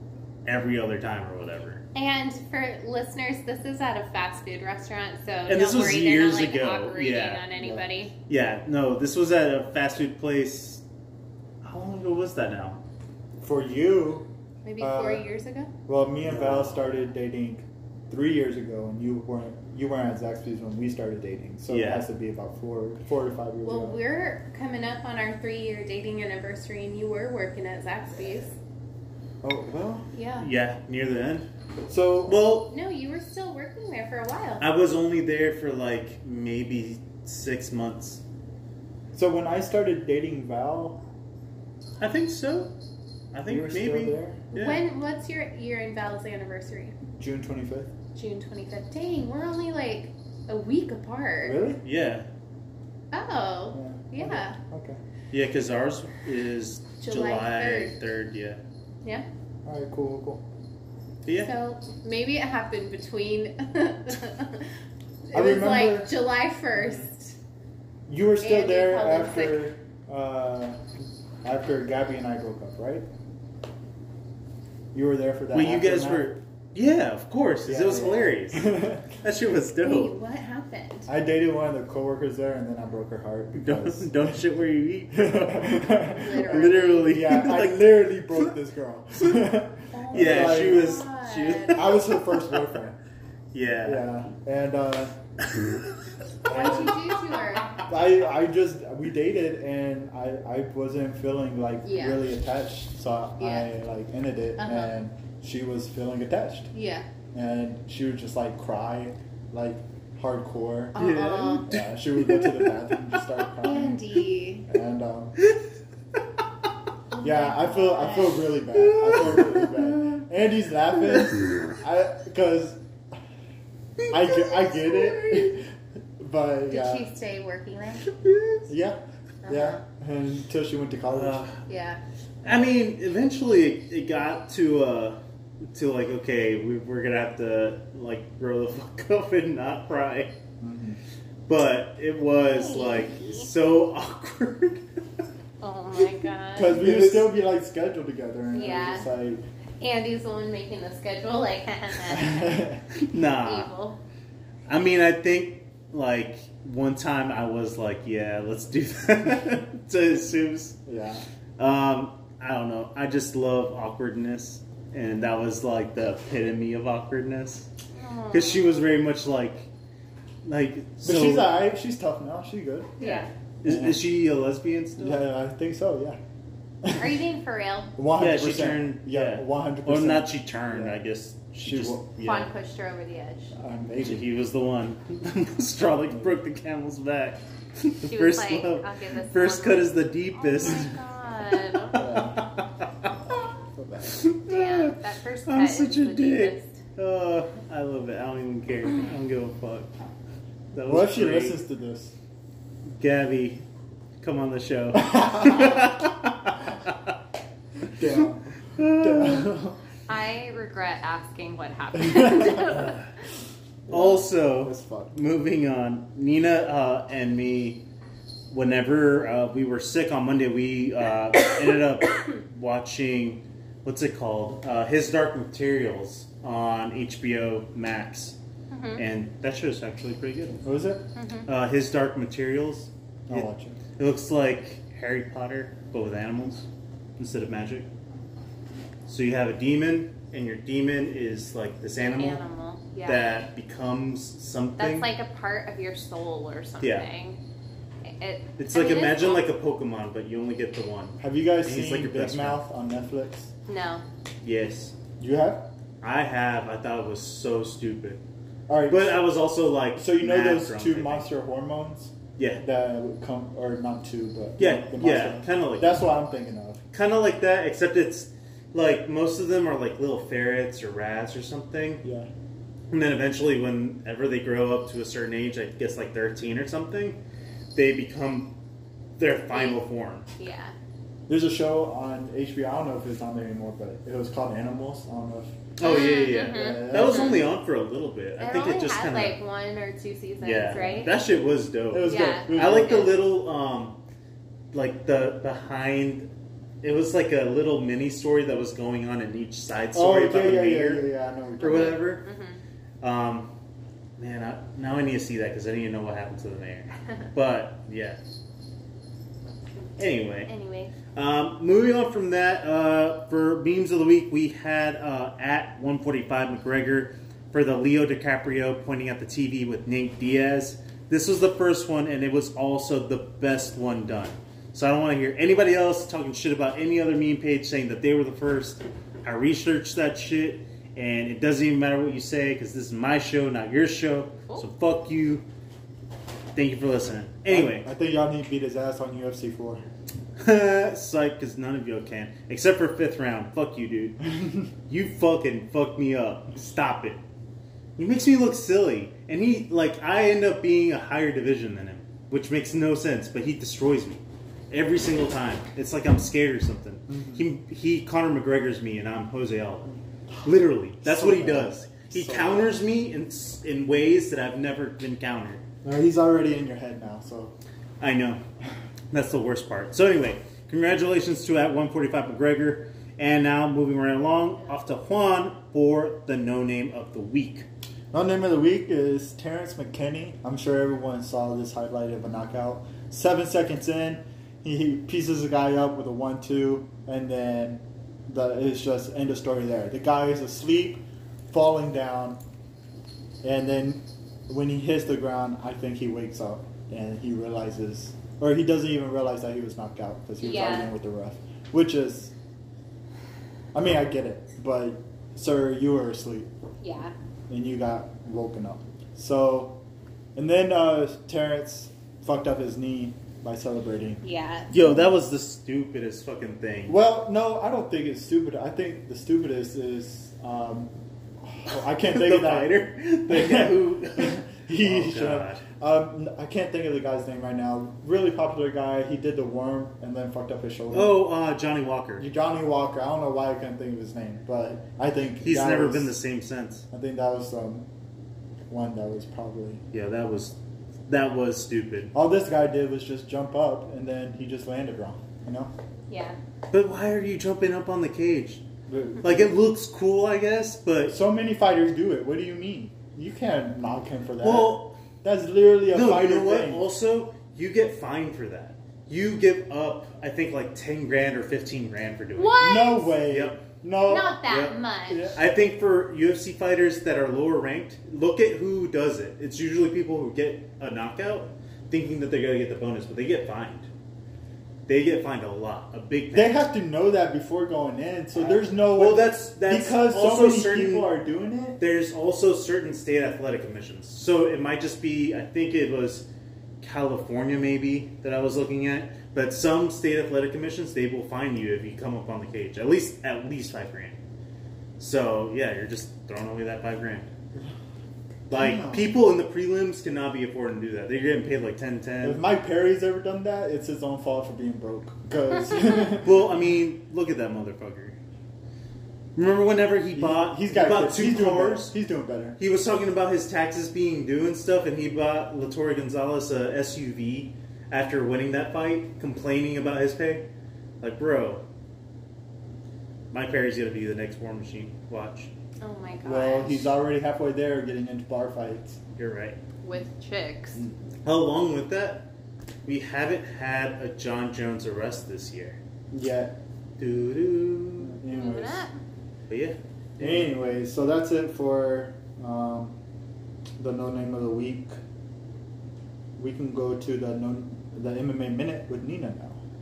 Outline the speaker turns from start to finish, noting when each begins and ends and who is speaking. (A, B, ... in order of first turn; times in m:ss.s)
0:00.4-0:01.8 A
0:01.9-0:08.1 B
0:05.5-0:07.4 A
0:07.5-0:07.8 C
0:08.3-0:10.8 A
0:11.6-0:12.8 A
0:13.4-0:14.3 C
0:14.6-0:15.7 B
0:14.8-0:15.2 C
0:15.9-0:24.0 C
0:16.2-0:16.8 A
0:21.7-0:22.1 A
0:23.6-0:28.5 B
0:29.4-0:30.1 C
0:30.1-0:30.5 B
0:30.4-0:31.5 A
0:31.9-0:32.4 C
0:32.2-0:32.7 A
0:32.7-0:34.6 B
0:34.6-0:38.2 A
0:39.1-0:41.0 C
0:42.0-0:42.7 A
0:43.3-0:44.8 A
0:43.5-0:44.5 C
0:44.6-0:47.0 B
0:47.1-0:47.9 C
0:48.1-0:51.6 B
0:51.4-0:51.8 C
0:51.8-0:52.3 A
0:53.1-0:54.6 B
0:53.7-0:55.0 C
0:55.3-0:58.6 A
0:57.0-0:57.9 B
0:59.6-1:00.4 C
1:01.2-1:01.5 A
1:01.4-1:04.7 B
1:05.3-1:07.4 B
1:05.3-1:06.1 C
1:08.1-1:10.8 C
1:08.4-1:09.7 B
1:11.4-1:13.1 C
1:14.9-1:16.4 C
1:15.5-1:20.1 A
1:17.6-1:19.1 C
1:19.8-1:21.1 B
1:21.1-1:24.4 C
1:23.5-1:28.5 A
1:25.1-1:30.9 C
1:26.1-1:27.2 B
1:29.9-1:32.0 B
1:30.1-1:32.0 A
1:31.7-1:33.0 C
1:33.5-1:34.1 A
1:33.8-1:35.2 C
1:35.4-1:36.0 A
1:36.5-1:37.0 C
1:36.5-1:37.8 B
1:37.9-1:46.7 C
1:41.8-1:42.2 B
1:43.4-1:43.7 B
1:44.6-1:44.9 B
1:46.7-1:47.1 B
1:47.3-1:51.0 C
1:50.9-1:51.7 B
1:50.9-1:53.2 A
1:51.7-1:55.4 C
1:53.6-1:54.7 B
1:56.2-1:56.4 A
1:57.1-1:58.5 B
1:57.2-2:02.8 C
1:58.7-2:00.2 A
2:04.0-2:05.4 A
2:04.1-2:07.1 C
2:06.7-2:08.2 B
2:08.1-2:08.7 A
2:08.7-2:11.5 C
2:09.4-2:09.8 B
2:11.1-2:11.6 A
2:11.7-2:12.0 B
2:12.4-2:15.2 A
2:15.7-2:20.4 A
2:20.6-2:21.0 C
2:21.5-2:25.2 A
2:22.5-2:23.5 B
2:25.6-2:26.9 B
2:26.5-2:29.4 C
2:26.7-2:27.3 A
2:28.5-2:29.1 B
2:29.8-2:34.0 B
2:32.1-2:32.8 C
2:33.0-2:33.7 A
2:34.7-2:40.8 A
2:40.8-2:41.2 C
2:41.6-2:47.7 A
2:47.9-2:48.8 B
2:48.3-2:49.7 A
2:50.4-2:51.5 A
2:51.0-2:53.0 C
2:53.0-2:53.3 B
2:53.0-2:55.2 A
2:53.6-2:54.0 C
2:55.0-2:56.2 C
2:56.8-2:57.2 C
2:56.9-2:57.9 B
2:58.0-3:01.0 C
2:58.2-3:02.5 A
3:01.6-3:02.1 C
3:02.2-3:03.5 B
3:03.5-3:04.3 C
3:04.0-3:10.9 A
3:06.1-3:06.4 C
3:08.0-3:12.1 B
3:11.9-3:12.4 C
3:11.9-3:13.1 A
3:13.7-3:14.2 C
3:14.0-3:19.9 A
3:14.5-3:16.8 B
3:20.7-3:21.6 A
3:20.9-3:22.1 C
3:22.9-3:23.6 A
3:24.2-3:27.2 A
3:24.9-3:25.9 C
3:27.9-3:29.8 C
3:28.7-3:29.5 A
3:30.1-3:33.0 B
3:32.6-3:33.1 A
3:33.9-3:35.1 C
3:33.9-3:37.8 A
3:38.5-3:48.4 A
3:48.7-3:49.0 B
3:49.0-3:50.6 A
3:50.6-3:51.1 C
3:51.2-3:51.5 B
3:51.4-3:56.7 A
3:53.3-3:53.8 C
3:57.2-3:57.9 A
3:59.1-4:02.4 A
4:02.0-4:03.4 B
4:03.0-4:05.1 A
4:04.8-4:07.4 B
4:06.8-4:07.1 A
4:08.0-4:09.5 B
4:08.6-4:12.6 A
4:11.2-4:13.5 C
4:13.7-4:14.0 B
4:14.4-4:14.9 A
4:15.2-4:15.7 C
4:16.0-4:18.2 A
4:18.7-4:19.2 C
4:18.9-4:21.3 A
4:20.0-4:26.8 C
4:22.4-4:22.6 A
4:24.6-4:26.0 A
4:26.9-4:32.0 A
4:32.0-4:32.3 C
4:32.9-4:37.2 A
4:37.7-4:38.6 A
4:39.2-4:40.3 A
4:39.5-4:39.8 B
4:40.4-4:40.7 B
4:41.3-4:45.6 C
4:45.8-4:49.4 A
4:45.8-4:47.5 B
4:46.4-4:47.5 C
4:48.4-4:51.1 B
4:50.4-4:54.0 A
4:51.9-4:53.1 C
4:52.0-4:53.1 B
4:54.7-4:56.3 A
4:56.8-5:01.1 A
4:59.9-5:02.0 C
5:01.6-5:02.2 A
5:01.6-5:02.6 B
5:03.0-5:03.5 A
5:04.2-5:08.2 A
5:10.0-5:10.5 A
5:10.5-5:10.9 B
5:11.1-5:35.4 A
5:36.5-5:37.9 A
5:37.5-5:39.8 C
5:40.4-5:44.2 A
5:44.4-5:44.7 C
5:44.9-5:47.2 A
5:48.0-6:05.6 A
5:57.1-5:57.4 C
6:01.0-6:02.8 C
6:05.8-6:07.5 C
6:08.0-6:08.4 A
6:09.1-6:17.7 A
6:18.1-6:32.4 C
6:33.4-6:42.3 C
6:40.4-6:40.9 B
6:43.7-6:46.5 C
6:46.8-6:47.1 B
6:47.5-6:49.8 C
6:50.3-6:54.2 C
6:54.2-6:54.7 B
6:54.7-6:57.0 A
6:54.7-6:55.1 C
6:56.9-7:02.7 C
7:01.7-7:05.6 A
7:03.3-7:11.2 C
7:10.9-7:12.3 A
7:12.2-7:16.1 C
7:15.4-7:16.8 A
7:16.9-7:17.9 C
7:18.7-7:19.8 C
7:19.9-7:20.6 A
7:21.1-7:22.1 A
7:22.1-7:25.7 C
7:26.1-7:26.4 B
7:26.7-7:28.6 A
7:28.9-7:29.6 C
7:29.2-7:31.2 A
7:31.1-7:36.8 C
7:34.4-7:35.0 A
7:35.9-7:42.6 A
7:42.4-7:43.2 B
7:42.6-7:44.4 C
7:43.3-7:43.6 A
7:44.0-7:45.3 B
7:44.4-7:44.8 A
7:45.1-7:45.4 C
7:45.3-7:53.9 A
7:54.9-7:56.6 A
7:56.3-8:01.8 C
7:58.4-8:01.1 A
8:01.8-8:06.3 A
8:06.8-8:14.2 A
8:15.0-8:17.3 A
8:18.5-8:22.4 A
8:18.5-8:19.1 C
8:22.2-8:26.5 C
8:26.2-8:28.2 A
8:29.4-8:31.9 A
8:30.1-8:32.6 C
8:32.6-8:40.5 A
8:41.0-8:41.6 A
8:43.3-8:45.5 A
8:45.8-8:46.9 B
8:46.2-8:49.0 C
8:49.1-8:49.6 A
8:49.8-8:50.8 B
8:51.2-8:52.3 A
8:52.8-8:55.8 A
8:56.1-8:56.6 C
8:57.0-8:58.2 A
8:58.0-8:58.9 C
8:58.3-8:59.0 B
8:59.5-9:00.5 A
9:00.2-9:03.0 C
9:03.8-9:05.0 C
9:06.4-9:09.6 C